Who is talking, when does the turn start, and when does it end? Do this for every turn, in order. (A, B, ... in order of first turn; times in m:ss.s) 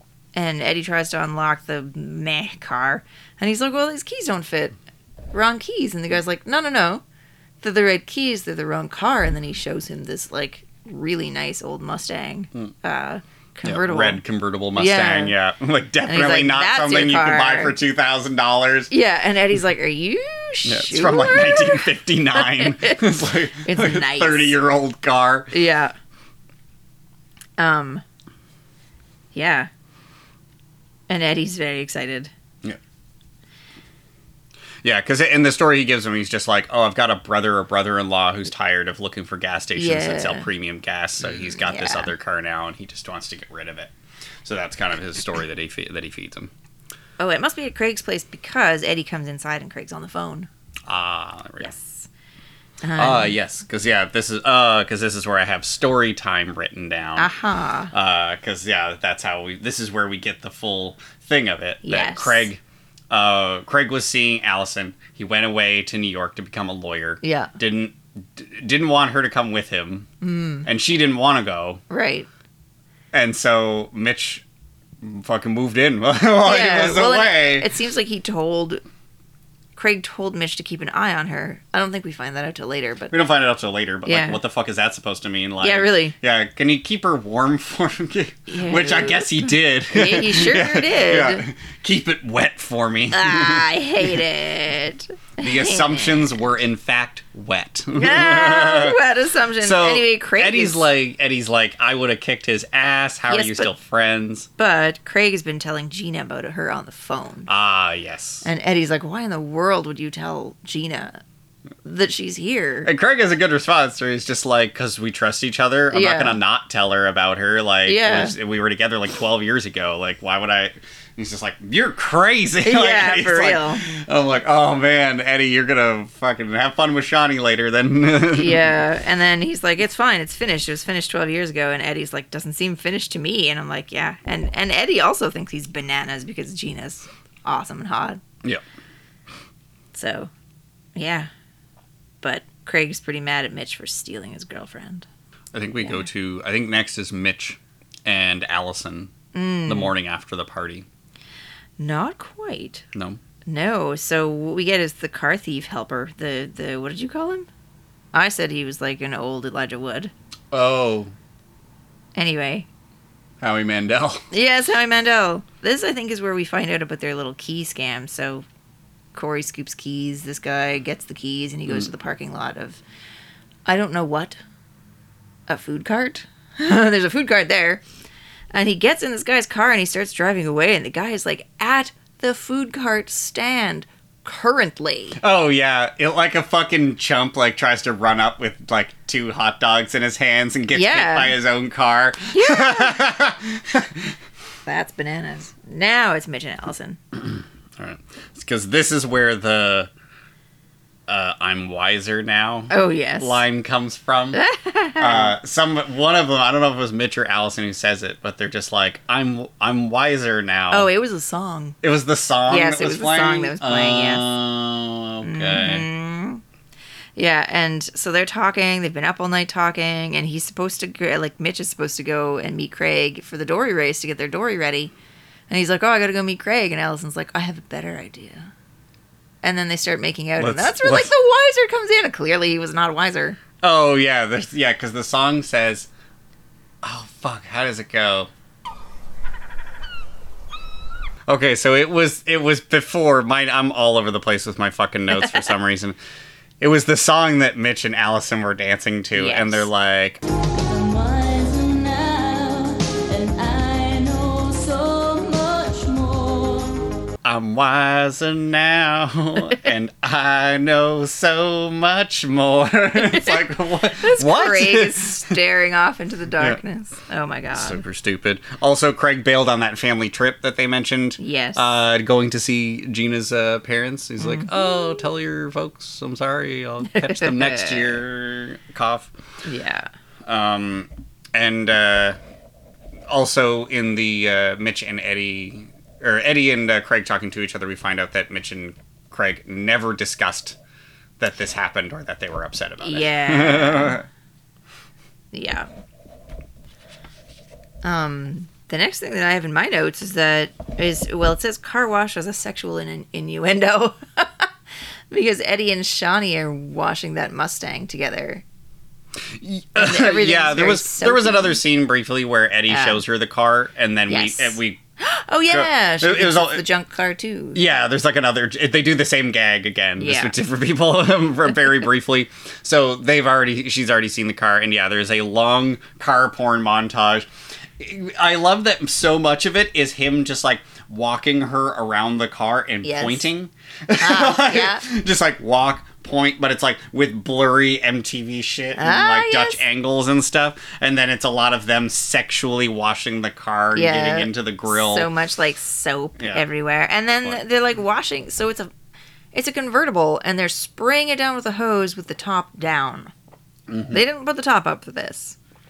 0:00.3-0:04.8 A
0:05.3-0:07.0 A
0:07.6-0:14.2 A
0:13.6-0:18.9 B
0:14.8-0:15.3 A
0:16.0-0:17.8 A
0:18.9-0:24.5 A
0:20.6-0:25.5 B
0:25.5-0:25.9 A
0:27.6-0:28.0 A
0:29.3-0:29.7 A
0:31.1-0:32.3 A
0:34.8-0:43.9 B
0:39.7-0:40.5 A
0:41.3-0:42.1 A
0:44.4-0:46.5 B
0:47.2-0:50.5 A
0:50.9-0:51.7 B
0:51.6-0:52.1 A
0:52.8-0:53.3 A
0:52.9-0:57.3 B
0:57.2-0:57.9 A
0:57.9-1:10.1 B
1:01.8-1:02.5 A
1:07.2-1:07.5 A
1:10.2-1:10.7 A
1:10.6-1:11.8 B
1:11.9-1:12.3 A
1:13.1-1:14.4 B
1:15.0-1:17.7 B
1:16.4-1:18.8 A
1:19.8-1:23.1 A
1:23.1-1:34.2 B
1:24.0-1:24.4 A
1:25.6-1:26.1 A
1:28.5-1:31.4 A
1:33.1-1:36.4 A
1:35.4-1:39.0 B
1:38.0-1:40.9 A
1:39.6-1:44.5 B
1:43.3-1:43.7 A
1:44.6-1:47.5 A
1:47.5-1:48.5 B
1:48.4-1:51.2 A
1:51.8-1:52.9 A
1:52.8-2:08.8 B
1:55.9-1:56.4 A
1:57.8-1:58.3 A
2:02.6-2:03.8 A
2:08.3-2:18.2 A
2:19.9-2:20.3 A
2:20.9-2:21.3 A
2:22.2-2:25.0 A
2:25.5-2:29.1 B
2:29.3-2:29.9 A
2:29.6-2:30.8 B
2:31.8-2:32.8 A
2:32.9-2:33.2 B
2:33.4-2:37.5 A
2:38.1-2:40.1 A
2:40.5-2:41.1 B
2:42.1-2:42.7 A
2:43.4-2:44.3 B
2:44.3-2:48.4 A
2:49.1-2:52.8 A
2:53.6-2:54.4 A
2:55.5-2:57.8 A
2:58.5-3:05.2 A
3:05.2-3:14.1 B
3:10.7-3:11.3 A
3:12.3-3:13.0 A
3:14.6-3:17.0 A
3:17.3-3:19.9 B
3:21.1-3:24.4 B
3:22.7-3:23.4 A
3:24.3-3:25.3 A
3:25.0-3:30.9 B
3:30.7-3:31.8 A
3:31.8-3:35.8 B
3:32.5-3:34.3 A
3:35.2-3:36.4 A
3:37.2-3:44.9 A
3:45.5-3:48.5 A
3:49.4-3:53.4 A
3:50.4-3:51.1 B
3:53.6-3:55.9 B
3:56.8-3:58.3 B
4:01.3-4:06.0 B
4:06.6-4:10.2 B
4:09.1-4:09.7 A
4:10.6-4:16.9 C
4:17.2-4:25.4 B
4:23.0-4:23.4 A
4:24.0-4:27.8 A
4:27.5-4:39.1 B
4:31.2-4:31.6 A
4:34.2-4:35.0 A
4:36.9-4:38.0 A
4:39.4-4:39.9 A
4:40.3-4:42.2 B
4:43.1-4:50.6 B
4:51.2-4:54.0 B
4:52.8-4:54.0 A
4:55.3-4:55.7 A
4:57.8-5:04.5 A
5:05.1-5:08.4 A
5:09.4-5:14.8 B
5:09.8-5:11.6 A
5:12.7-5:13.0 A
5:14.1-5:17.6 A
5:15.5-5:16.6 B
5:17.5-5:27.3 B
5:20.0-5:20.3 A
5:27.8-5:45.1 B
5:32.8-5:33.2 A
5:34.0-5:34.8 A
5:38.8-5:39.6 A
5:43.7-5:48.7 A
5:46.2-5:46.4 B
5:49.3-5:53.1 A
5:53.7-5:54.0 B
5:53.9-5:55.4 A